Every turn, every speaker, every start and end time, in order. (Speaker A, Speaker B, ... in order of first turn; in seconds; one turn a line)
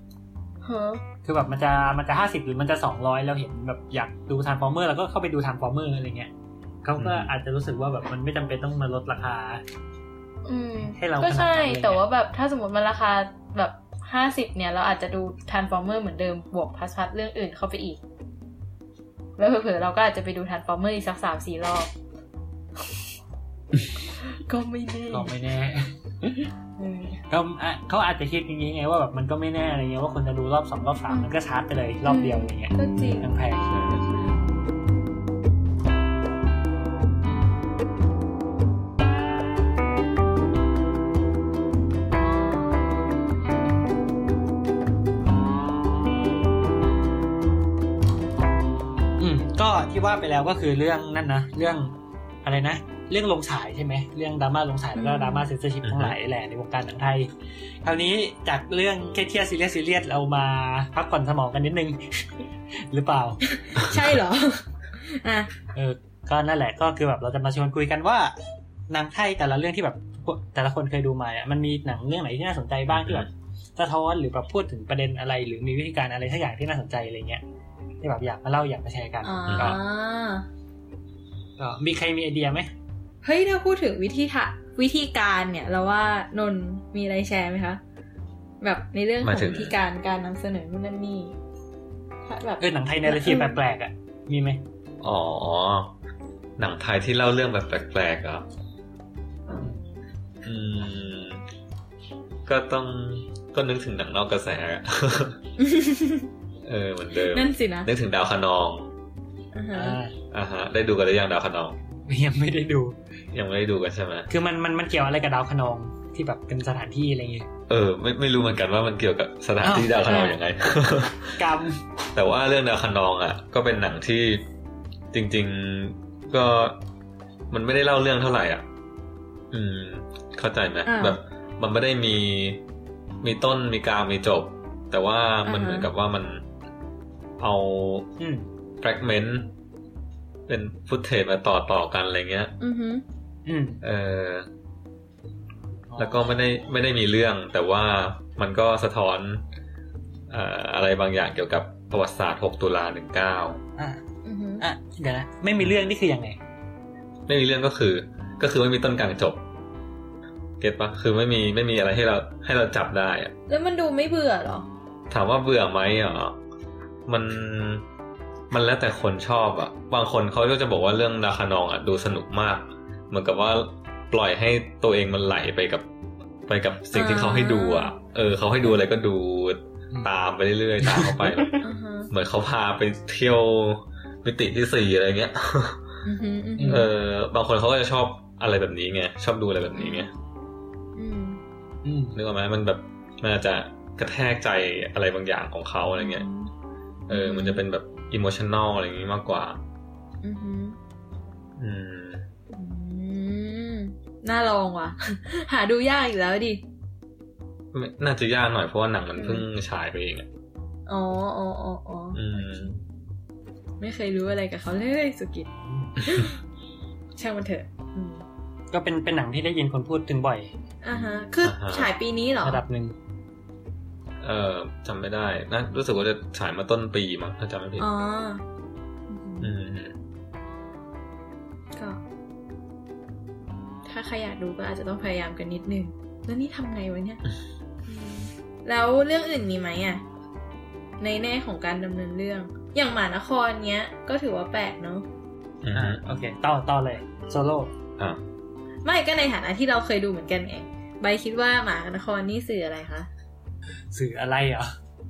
Speaker A: 0.6-1.0
Speaker B: 1.2-6.3
Speaker B: 6.8-9.6
Speaker C: 7.0-7.3
Speaker A: 10.5-18.0
Speaker B: 10.9-12.0
Speaker A: 19.4-21.9
Speaker A: 24.0-25.3
Speaker B: 25.1-25.9
Speaker A: 26.8-27.2
Speaker B: 27.3-33.6
Speaker A: 32.0-33.3
Speaker C: 32.8-34.4
Speaker B: 49.2-57.3
Speaker A: 55.0-55.5
Speaker C: 55.8-56.1
Speaker B: 57.8-63.4
Speaker A: 63.5-65.5
Speaker B: 65.7-68.3
Speaker B: 68.9-77.4
Speaker C: 72.9-73.3
Speaker B: 78.0-79.8
Speaker A: 79.2-80.5
Speaker C: 79.5-79.8
Speaker B: 81.6-82.7
Speaker A: 83.2-87.8
Speaker A: 88.6-91.4
Speaker C: 89.2-89.8
Speaker A: 92.2-93.6
Speaker B: 92.6-94.6
Speaker C: 95.0-95.9
Speaker C: 96.6-98.5
Speaker B: 99.5-99.8
Speaker C: 100.4-101.4
Speaker C: 102.5-105.4
Speaker A: 105.6-106.3
Speaker C: 106.6-108.9
Speaker A: 107.3-107.9
Speaker A: 109.5-110.0
Speaker B: 109.7-110.2
Speaker C: 110.3-111.8
Speaker B: 112.1-113.0
Speaker C: 113.3-114.3
Speaker B: 114.3-117.5
Speaker C: 117.7-121.5
Speaker B: 119.6-120.1
Speaker A: 120.1-120.4
Speaker B: 121.4-121.8
Speaker C: 122.1-124.4
Speaker C: 125.1-126.8
Speaker C: 127.5-128.7
Speaker C: 129.5-132.6
Speaker A: 130.9-131.2
Speaker C: 133.2-136.4
Speaker A: 135.4-135.9
Speaker C: 137.4-138.1
Speaker B: 138.2-138.5
Speaker C: 138.8-139.5
Speaker C: 140.5-142.5
Speaker A: 142.6-143.0
Speaker B: 143.5-143.8
Speaker C: 143.8-144.5
Speaker B: 145.9-146.4
Speaker C: 146.0-149.4
Speaker C: 150.3-153.6
Speaker A: 154.2-154.6
Speaker B: 154.6-156.4
Speaker C: 155.6-155.9
Speaker C: 157.3-159.4
Speaker C: 160.6-163.3
Speaker A: 163.5-164.7
Speaker C: 165.1-166.4
Speaker C: 167.1-167.8
Speaker C: 168.5-175.9
Speaker C: 176.5-181.6
Speaker A: 176.9-177.9
Speaker B: 180.8-181.6
Speaker A: 181.6-182.1
Speaker C: 182.1-185.9
Speaker A: 186.1-186.9
Speaker B: 186.6-186.9
Speaker C: 186.7-190.1
Speaker A: 189.8-190.1
Speaker A: 191.0-191.4
Speaker B: 191.8-192.2
Speaker C: 192.2-196.3
Speaker A: 196.0-196.5
Speaker A: 197.1-197.6
Speaker C: 197.1-199.6
Speaker A: 200.2-200.8
Speaker C: 201.6-202.3
Speaker A: 202.5-206.6
Speaker C: 207.7-210.3
Speaker A: 209.2-209.4
Speaker A: 210.9-212.2
Speaker C: 212.1-212.8
Speaker A: 213.8-216.4
Speaker C: 216.0-216.3
Speaker A: 217.2-218.2
Speaker B: 218.7-220.5
Speaker A: 220.8-222.6
Speaker C: 220.9-221.9
Speaker B: 222.4-223.0
Speaker C: 224.2-227.9
Speaker A: 227.8-228.4
Speaker A: 229.1-229.5
Speaker C: 229.4-230.0
Speaker A: 233.8-237.2
Speaker A: 237.9-240.0
Speaker A: 241.0-245.1
Speaker C: 245.6-246.0
Speaker B: 245.7-247.7
Speaker A: 248.8-253.1
Speaker B: 253.9-254.8